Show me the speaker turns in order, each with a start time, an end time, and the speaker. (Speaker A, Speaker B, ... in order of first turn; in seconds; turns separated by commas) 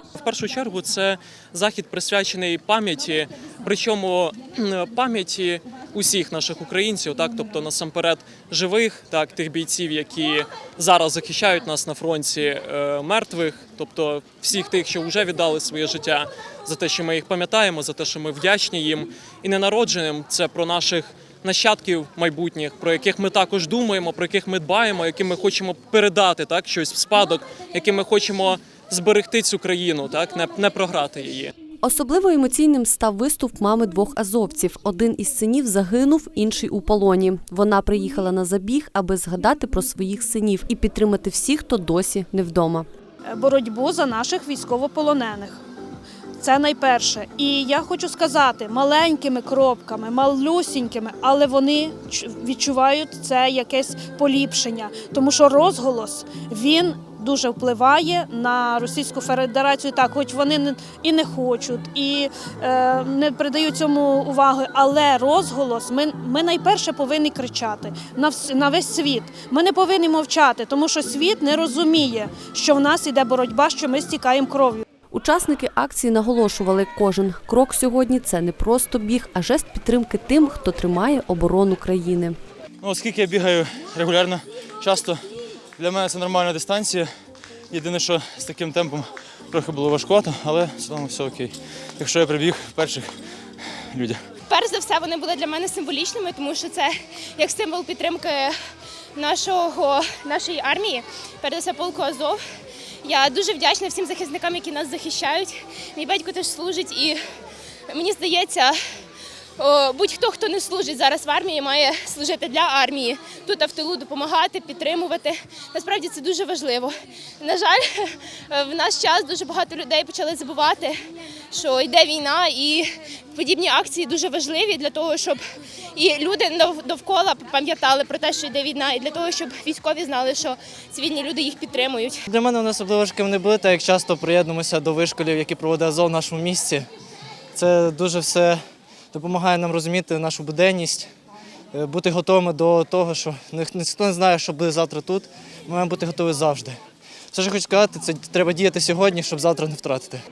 Speaker A: 0.1-31.5, Speaker B: 31.8-42.9, Speaker C: 43.3-45.6, Speaker C: 46.4-74.9, Speaker B: 75.1-82.4, Speaker D: 82.8-85.2, Speaker D: 85.8-87.1, Speaker D: 87.7-93.1, Speaker D: 93.9-94.2, Speaker E: 94.5-98.5, Speaker E: 99.2-102.4, Speaker E: 103.0-107.2, Speaker E: 107.9-108.8, Speaker E: 109.6-121.0, Speaker E: 121.5-125.4, Speaker E: 126.0-132.2, Speaker F: 132.3-136.9, Speaker F: 137.6-138.6, Speaker F: 139.1-141.1, Speaker F: 141.7-146.8, Speaker F: 147.3-150.2